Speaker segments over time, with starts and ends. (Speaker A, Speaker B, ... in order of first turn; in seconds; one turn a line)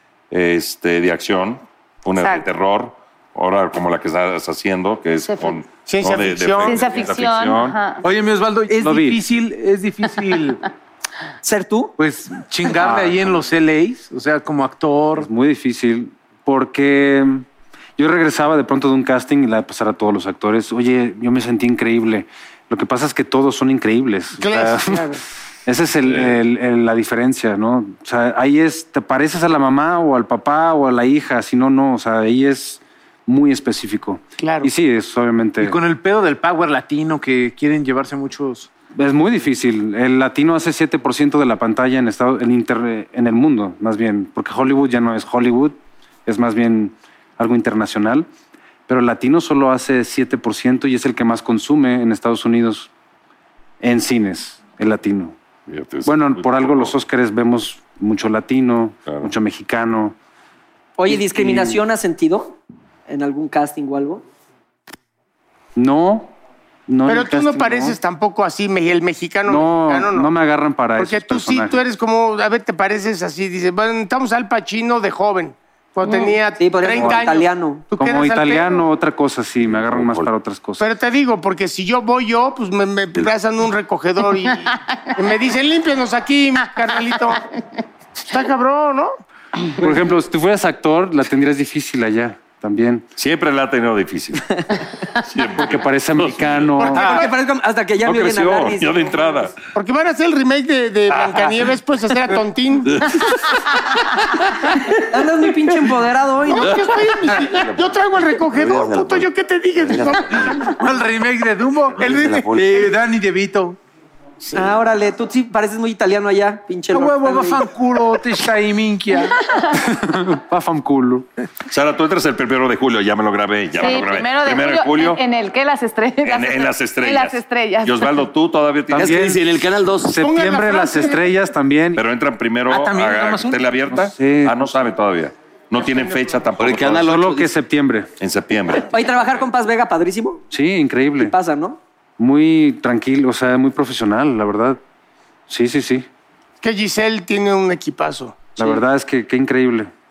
Speaker A: 0.3-7.8
Speaker B: 2.2-2.5
Speaker B: 5.2-5.6
Speaker C: 5.9-6.9
Speaker B: 6.6-8.1
Speaker D: 8.0-10.6
Speaker E: 8.8-9.2
Speaker F: 11.4-11.9
Speaker D: 12.0-15.3
Speaker E: 12.8-13.3
Speaker E: 15.2-17.4
Speaker E: 18.0-35.8
Speaker C: 24.4-25.2
Speaker A: 26.1-26.4
Speaker C: 34.4-34.7
Speaker D: 35.6-38.7
Speaker E: 38.9-48.3
Speaker E: 48.9-52.9
Speaker E: 53.8-55.4
Speaker A: 55.7-57.0
Speaker E: 56.0-60.1
Speaker A: 59.1-59.3
Speaker F: 61.0-64.2
Speaker E: 61.1-61.8
Speaker E: 65.8-66.3
Speaker E: 66.9-68.0
Speaker C: 67.1-70.3
Speaker E: 69.5-71.8
Speaker C: 71.0-78.8
Speaker B: 76.0-76.4
Speaker F: 76.6-77.8
Speaker E: 76.9-77.2
Speaker E: 78.0-80.8
Speaker G: 79.6-80.3
Speaker C: 80.8-87.5
Speaker C: 88.3-89.1
Speaker E: 89.8-93.0
Speaker A: 93.2-94.6
Speaker A: 95.2-96.9
Speaker E: 95.6-97.0
Speaker C: 96.8-97.3
Speaker F: 96.9-99.2
Speaker A: 98.0-99.5
Speaker C: 99.8-103.0
Speaker A: 102.9-103.2
Speaker F: 104.9-106.9
Speaker C: 106.5-110.8
Speaker G: 107.6-110.7
Speaker D: 110.7-113.8
Speaker G: 112.0-112.8
Speaker C: 114.4-114.8
Speaker F: 114.5-117.7
Speaker D: 116.9-119.3
Speaker E: 119.8-121.3
Speaker A: 121.7-125.2
Speaker B: 123.8-128.2
Speaker A: 126.2-129.2
Speaker G: 128.9-130.3
Speaker E: 129.0-129.4
Speaker E: 130.0-132.0
Speaker C: 130.2-131.3
Speaker A: 131.9-137.2
Speaker D: 132.7-134.1
Speaker E: 134.1-134.6
Speaker C: 135.8-136.1
Speaker G: 136.6-137.6
Speaker E: 137.0-138.1
Speaker A: 138.2-138.9
Speaker F: 138.9-140.4
Speaker E: 140.5-141.3
Speaker F: 141.2-141.8
Speaker E: 142.2-144.8
Speaker E: 145.5-146.1
Speaker C: 146.6-148.5
Speaker E: 148.6-149.9